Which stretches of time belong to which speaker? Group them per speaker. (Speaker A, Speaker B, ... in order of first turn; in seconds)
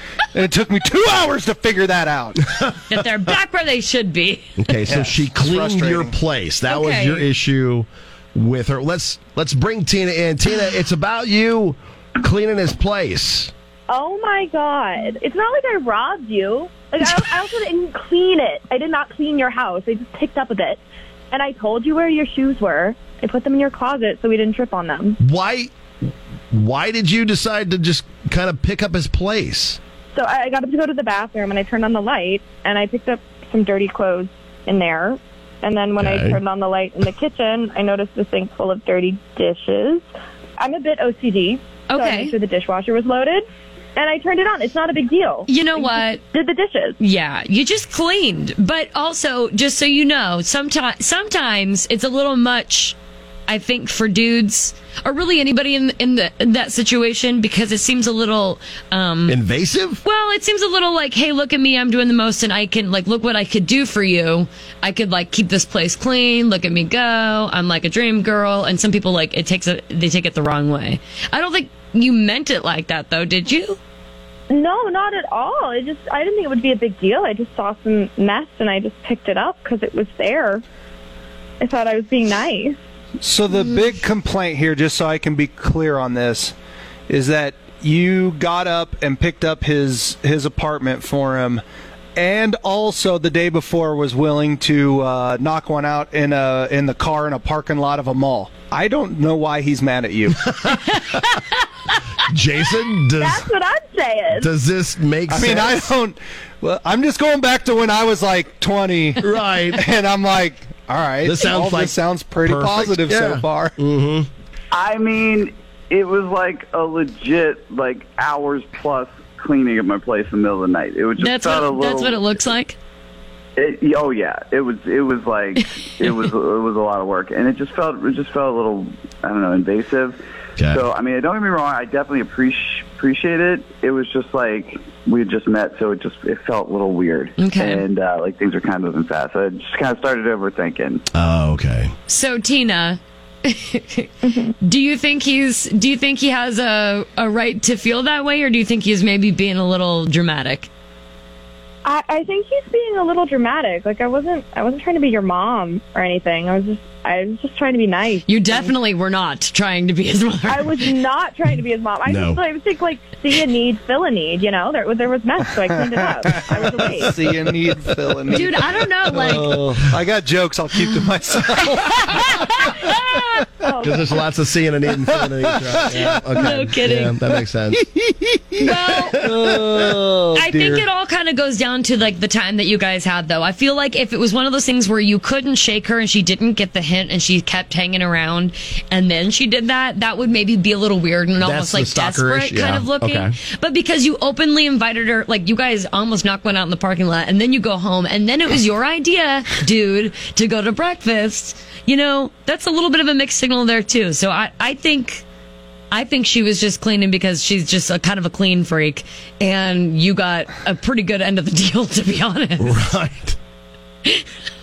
Speaker A: 0.3-2.4, 4.9-6.2, 83.2-86.5, 87.1-91.6, 92.2-100.5, 105.3-113.8, 165.8-172.7, 175.1-176.2, 177.7-180.9
Speaker B: 2.9-4.7, 6.7-7.3, 41.9-42.3, 45.5-46.2, 47.0-53.0, 53.5-59.4, 60.0-73.8, 83.5-83.8, 121.2-122.8, 137.4-137.8, 142.1-150.7, 158.3-160.8, 168.3-169.6, 171.6-173.4, 176.3-177.1, 178.6-179.2, 180.3-205.2, 205.9-212.8
Speaker C: 4.6-13.5, 25.2-25.7, 26.5-29.8, 36.0-36.4, 59.3-60.0, 100.6-101.0, 102.3-103.4, 104.3-105.9, 109.2-109.8, 111.2-114.3, 130.6-130.8, 141.1-141.9, 162.1-162.4, 173.8-177.8, 178.7-179.6, 191.4-193.4, 212.6-213.4
Speaker D: 13.9-20.8, 21.3-25.2, 30.1-40.0, 40.6-43.4, 44.0-47.0, 74.5-80.6, 81.6-82.8, 103.2-104.5, 144.2-144.5, 151.8-158.7, 160.5-167.1, 173.6-174.1
Speaker E: 114.7-122.3, 123.6-141.0